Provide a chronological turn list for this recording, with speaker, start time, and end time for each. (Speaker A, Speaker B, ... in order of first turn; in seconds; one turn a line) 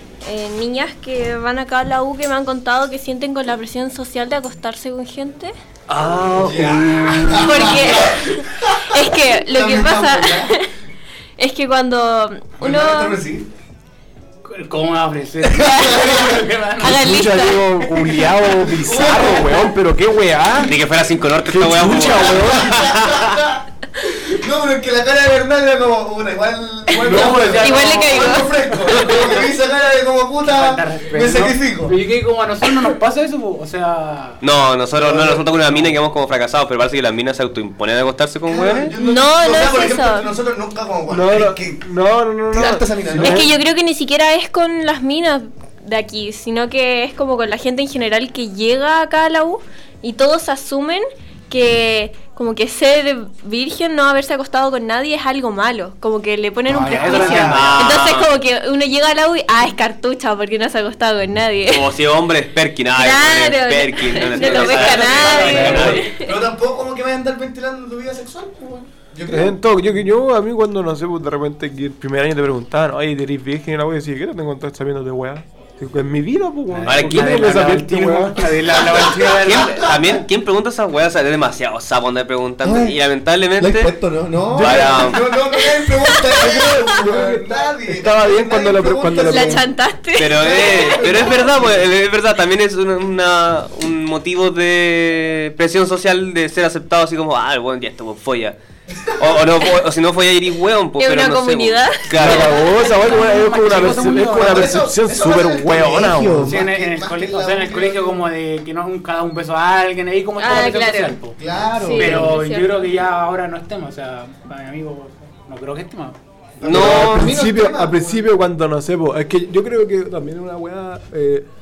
Speaker A: 0.2-5.5
Speaker B: 5.9-7.9
Speaker C: 6.3-10.6
Speaker A: 7.4-10.7
Speaker A: 11.4-13.2
Speaker C: 12.6-13.5
Speaker D: 14.4-17.1
Speaker C: 15.4-16.4
Speaker A: 16.8-17.7
Speaker E: 16.9-20.8
Speaker C: 18.4-19.7
Speaker B: 20.6-23.4
Speaker E: 21.4-22.8
Speaker C: 22.1-32.0
Speaker D: 27.0-28.4
Speaker E: 27.1-27.6
Speaker A: 27.1-28.7
Speaker D: 30.4-34.4
Speaker B: 34.4-38.9
Speaker C: 34.9-35.8
Speaker C: 38.5-41.8
Speaker A: 39.0-40.3
Speaker E: 41.1-43.5
Speaker C: 42.5-43.5
Speaker A: 43.2-61.9
Speaker D: 56.7-57.8
Speaker C: 56.7-57.9
Speaker B: 57.4-58.3
Speaker B: 61.7-66.1
Speaker A: 62.9-66.4
Speaker D: 64.4-66.0
Speaker C: 64.4-69.6
Speaker E: 69.3-78.6
Speaker D: 76.7-79.9
Speaker B: 76.9-77.6
Speaker C: 78.6-80.2
Speaker B: 79.4-83.9
Speaker C: 82.6-83.0
Speaker C: 83.6-89.7
Speaker E: 84.5-85.2
Speaker B: 84.6-85.3
Speaker A: 85.5-86.5
Speaker E: 86.3-89.6
Speaker A: 89.2-91.4
Speaker B: 90.2-98.5
Speaker C: 90.3-91.8
Speaker C: 98.9-99.6
Speaker B: 99.2-102.5
Speaker A: 101.0-103.5
Speaker E: 102.1-106.6
Speaker D: 102.8-104.8
Speaker C: 104.1-108.2
Speaker D: 106.5-111.4
Speaker A: 110.4-112.9
Speaker C: 111.3-112.4
Speaker D: 111.9-116.2
Speaker C: 116.6-118.3
Speaker B: 116.6-117.3
Speaker E: 116.6-121.5